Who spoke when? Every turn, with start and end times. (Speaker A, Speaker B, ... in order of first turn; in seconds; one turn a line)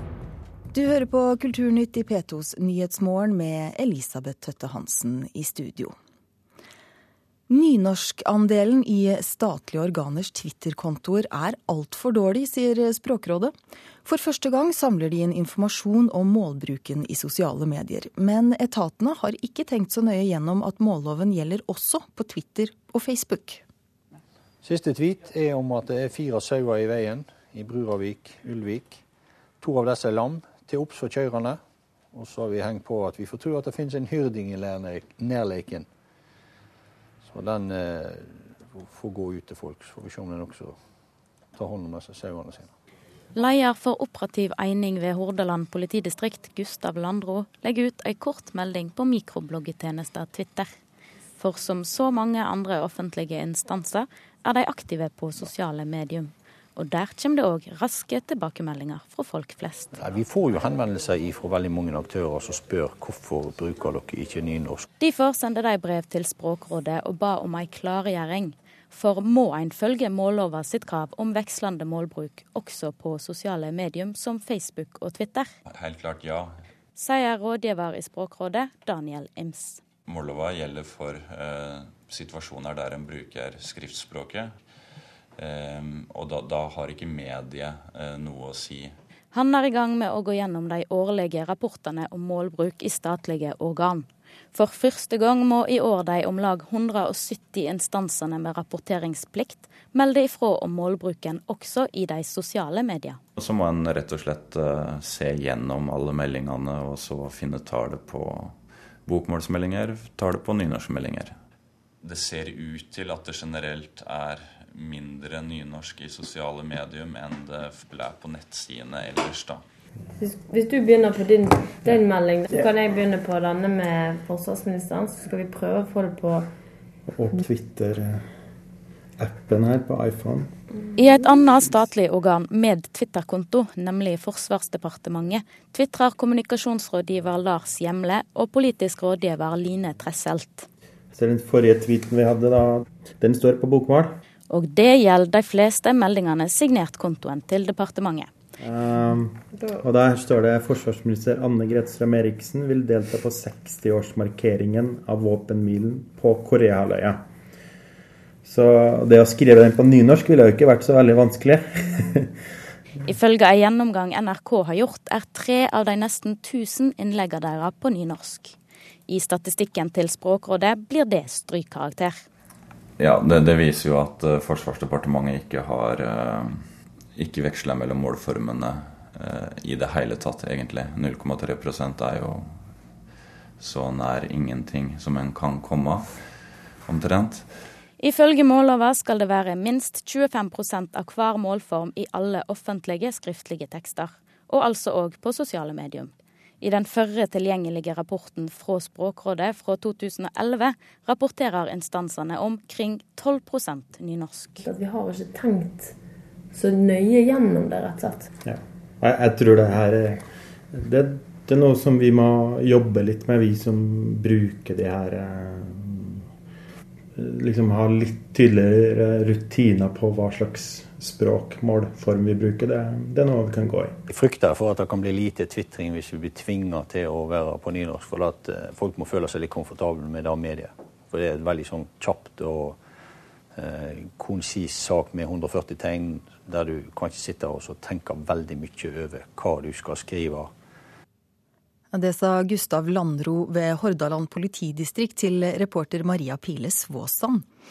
Speaker A: 0.7-6.0
Speaker A: 7.5-13.5
Speaker A: 14.0-23.6
Speaker B: 24.6-29.0
Speaker B: 29.6-31.6
Speaker B: 32.1-35.9
Speaker B: 37.2-40.8
Speaker B: 41.5-42.7
Speaker C: 43.3-50.7
Speaker C: 51.4-60.0
Speaker B: 60.0-64.9
Speaker C: 65.0-75.5
Speaker D: 75.7-76.6
Speaker C: 76.9-79.8
Speaker D: 80.0-84.5
Speaker D: 85.4-88.9
Speaker C: 89.3-103.2
Speaker D: 103.3-111.4
Speaker D: 112.0-119.6
Speaker E: 120.2-126.5
Speaker F: 127.1-128.3
Speaker F: 129.2-130.5
Speaker C: 130.9-140.7
Speaker F: 141.1-144.1
Speaker C: 144.5-148.3
Speaker F: 148.6-157.2
Speaker F: 158.4-162.3
Speaker C: 163.0-168.6
Speaker C: 169.1-172.2
Speaker D: 173.0-182.6
Speaker D: 183.6-186.2
Speaker D: 186.8-187.5
Speaker C: 188.0-204.6
Speaker E: 204.6-205.9
Speaker E: 206.5-208.3
Speaker F: 208.4-216.2
Speaker F: 217.2-223.9
Speaker B: 224.1-232.8
Speaker B: 233.5-240.5
Speaker A: 241.9-247.5